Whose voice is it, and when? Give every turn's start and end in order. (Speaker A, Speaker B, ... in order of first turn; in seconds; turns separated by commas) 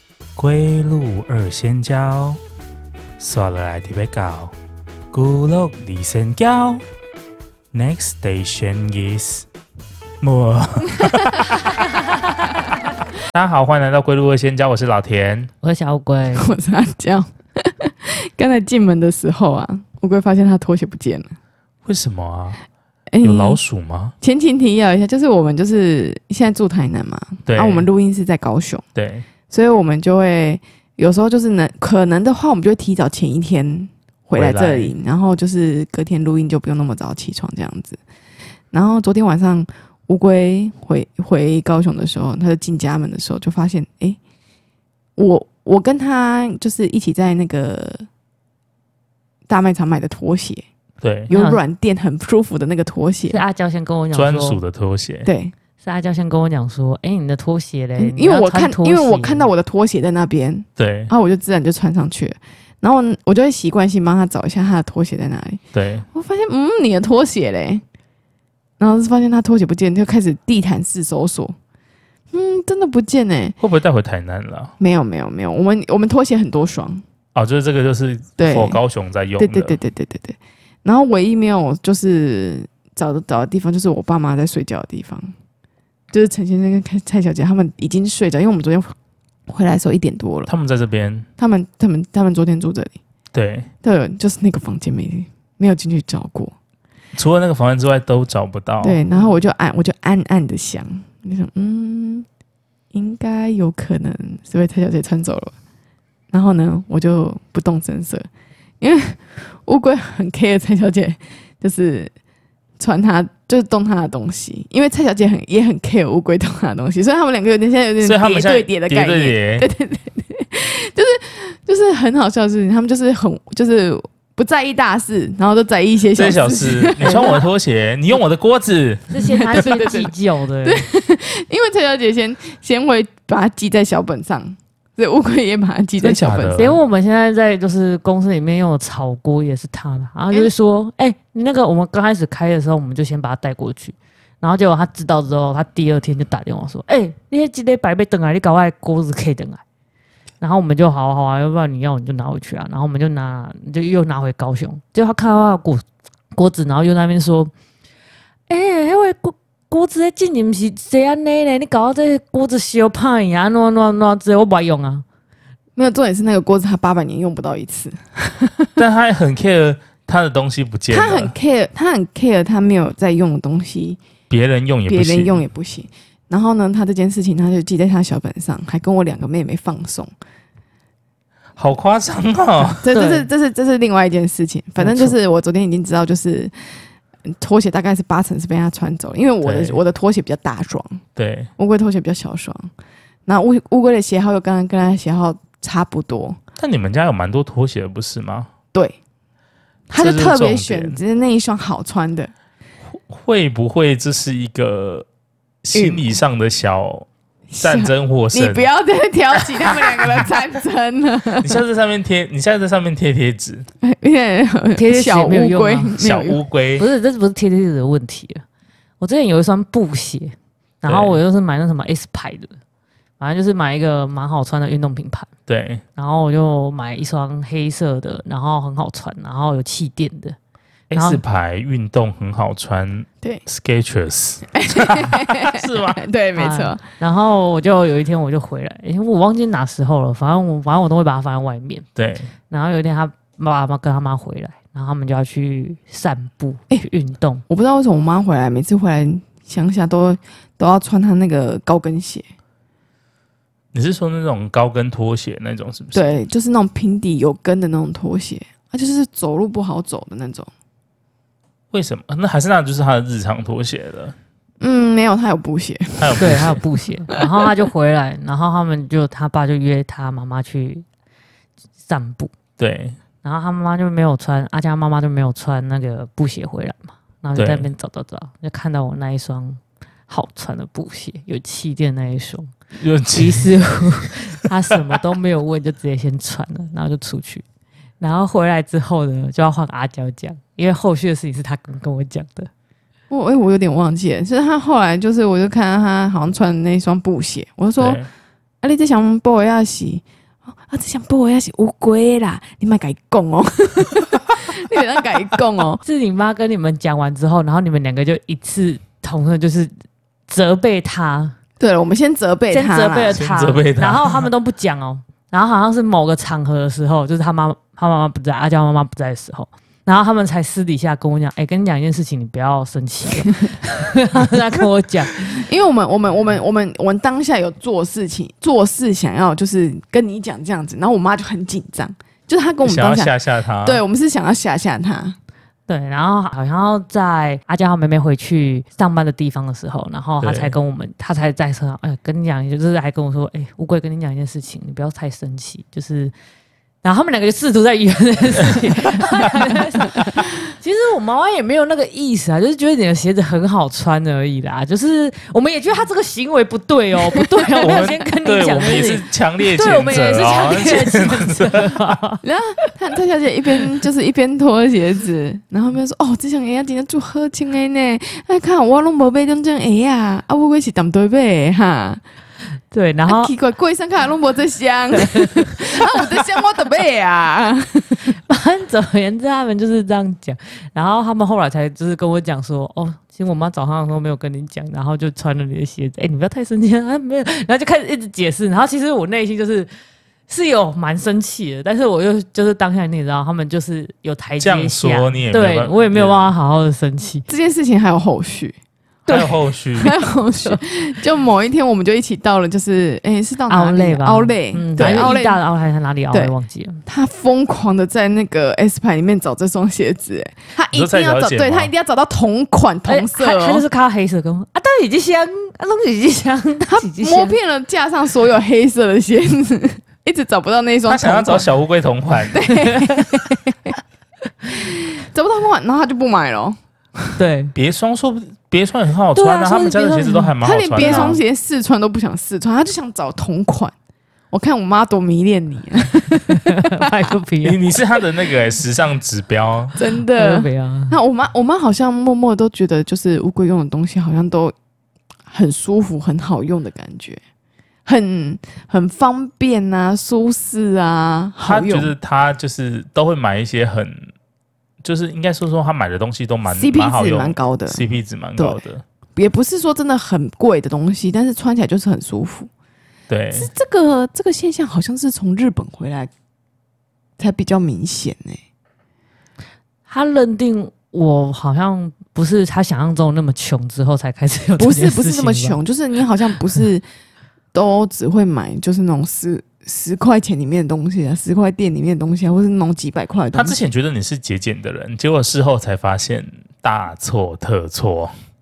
Speaker A: 0.4-2.4, Speaker A: 3.2-4.5, Speaker A: 5.1-6.8, Speaker A: 7.7-9.5, Speaker A: 10.2-11.8, Speaker A: 13.3-15.5, Speaker B: 15.6-16.5, Speaker C: 16.3-21.3, Speaker A: 21.9-22.6, Speaker C: 23.1-23.6, Speaker A: 23.2-24.1, Speaker C: 24.2-28.8, Speaker A: 27.5-27.9, Speaker A: 29.0-29.3, Speaker C: 29.5-38.0, Speaker A: 34.4-35.0, Speaker C: 38.7-44.2, Speaker C: 45.2-48.1, Speaker C: 49.5-50.7, Speaker A: 51.0-51.3, Speaker B: 51.3-51.6, Speaker C: 51.3-53.4, Speaker B: 53.3-54.6, Speaker A: 54.1-55.3, Speaker C: 55.2-55.5, Speaker B: 55.8-59.5, Speaker C: 58.0-65.6, Speaker A: 60.8-61.1, Speaker A: 65.7-66.0, Speaker C: 66.1-67.8, Speaker C: 68.8-71.6, Speaker C: 72.3-73.6, Speaker A: 73.6-74.7, Speaker C: 74.8-77.0, Speaker A: 77.3-79.8, Speaker C: 78.4-78.8, Speaker C: 79.4-85.3, Speaker C: 86.1-88.9, Speaker C: 89.5-90.5, Speaker A: 90.5-91.3, Speaker C: 91.4-93.0, Speaker A: 93.3-93.7, Speaker C: 93.8-96.5, Speaker A: 97.2-99.0, Speaker C: 98.8-102.3, Speaker C: 102.9-105.5, Speaker C: 106.3-108.3, Speaker C: 108.8-112.1, Speaker C: 112.8-127.5, Speaker A: 118.0-119.7, Speaker A: 126.2-129.6, Speaker B: 129.1-130.9, Speaker C: 129.1-136.6, Speaker A: 136.0-136.8, Speaker B: 136.6-149.6, Speaker B: 150.4-155.8, Speaker B: 156.3-157.5, Speaker B: 158.5-165.0, Speaker C: 165.8-168.7, Speaker A: 168.8-171.3, Speaker C: 170.9-174.0, Speaker A: 174.3-175.4, Speaker C: 174.9-180.1, Speaker A: 181.6-182.9, Speaker C: 182.8-186.5, Speaker B: 182.9-183.3, Speaker B: 184.8-185.1, Speaker C: 187.3-191.0, Speaker A: 189.4-189.8, Speaker A: 191.2-191.5, Speaker C: 191.6-192.7, Speaker C: 193.3-196.4, Speaker A: 196.6-198.5, Speaker C: 199.9-202.3, Speaker A: 199.9-201.0, Speaker A: 203.1-205.1, Speaker A: 205.6-207.1, Speaker C: 205.7-206.1, Speaker C: 207.5-211.6, Speaker A: 207.6-208.7, Speaker A: 211.4-213.7, Speaker C: 213.8-216.4, Speaker B: 214.8-215.9, Speaker A: 216.0-216.9, Speaker B: 216.8-218.4, Speaker B: 219.0-222.5, Speaker A: 220.8-221.2, Speaker B: 223.2-225.3, Speaker A: 225.5-225.8, Speaker B: 226.0-230.4, Speaker A: 230.9-236.0, Speaker B: 230.9-231.2, Speaker C: 234.6-236.8, Speaker B: 236.4-241.9, Speaker A: 242.0-242.3, Speaker B: 242.5-247.4, Speaker C: 247.5-252.3, Speaker A: 253.7-256.0, Speaker C: 255.9-260.5, Speaker A: 261.7-264.2, Speaker C: 264.6-266.5, Speaker A: 266.0-266.6, Speaker B: 266.2-270.9, Speaker C: 267.2-267.5, Speaker B: 271.9-272.3, Speaker A: 272.6-273.0, Speaker B: 273.2-282.5, Speaker A: 277.4-277.7, Speaker A: 282.8-284.1, Speaker B: 283.1-287.4, Speaker B: 288.0-292.5, Speaker C: 293.1-298.0, Speaker A: 297.8-298.1, Speaker C: 298.6-300.0, Speaker C: 300.7-305.8, Speaker B: 305.8-309.7, Speaker B: 310.3-311.4, Speaker C: 311.6-313.2, Speaker B: 312.5-325.5, Speaker A: 313.2-314.3, Speaker C: 325.4-335.2, Speaker A: 332.6-333.8, Speaker B: 335.7-346.1, Speaker A: 340.2-340.6, Speaker B: 346.8-362.2, Speaker C: 357.3-357.8, Speaker A: 357.6-361.9, Speaker C: 362.2-372.0, Speaker B: 372.7-373.3, Speaker C: 373.1-378.1, Speaker B: 374.9-375.6, Speaker B: 378.1-389.7, Speaker B: 390.3-397.3, Speaker A: 394.4-396.3, Speaker C: 397.3-398.6, Speaker B: 399.1-399.4, Speaker A: 399.1-400.0, Speaker C: 399.8-405.4, Speaker B: 403.5-406.8, Speaker A: 404.8-405.1, Speaker C: 406.9-413.6, Speaker A: 410.7-411.7, Speaker B: 412.9-417.4, Speaker C: 416.7-421.5, Speaker A: 420.9-422.4, Speaker C: 422.3-423.7, Speaker B: 422.7-423.2, Speaker C: 424.5-427.2, Speaker B: 427.2-427.5, Speaker A: 427.6-431.2, Speaker B: 429.1-431.2, Speaker C: 430.4-433.7, Speaker C: 434.3-436.8, Speaker B: 436.3-437.7, Speaker A: 437.4-439.7, Speaker C: 439.8-444.5, Speaker B: 440.2-441.0, Speaker C: 445.3-447.2, Speaker C: 447.9-451.9, Speaker A: 451.4-454.1, Speaker A: 454.8-458.8, Speaker C: 456.5-457.8, Speaker C: 459.1-462.5, Speaker A: 463.1-463.5, Speaker C: 463.3-466.1, Speaker C: 467.2-468.4, Speaker B: 469.9-475.6, Speaker C: 474.6-476.9, Speaker C: 477.5-483.6, Speaker A: 483.3-488.1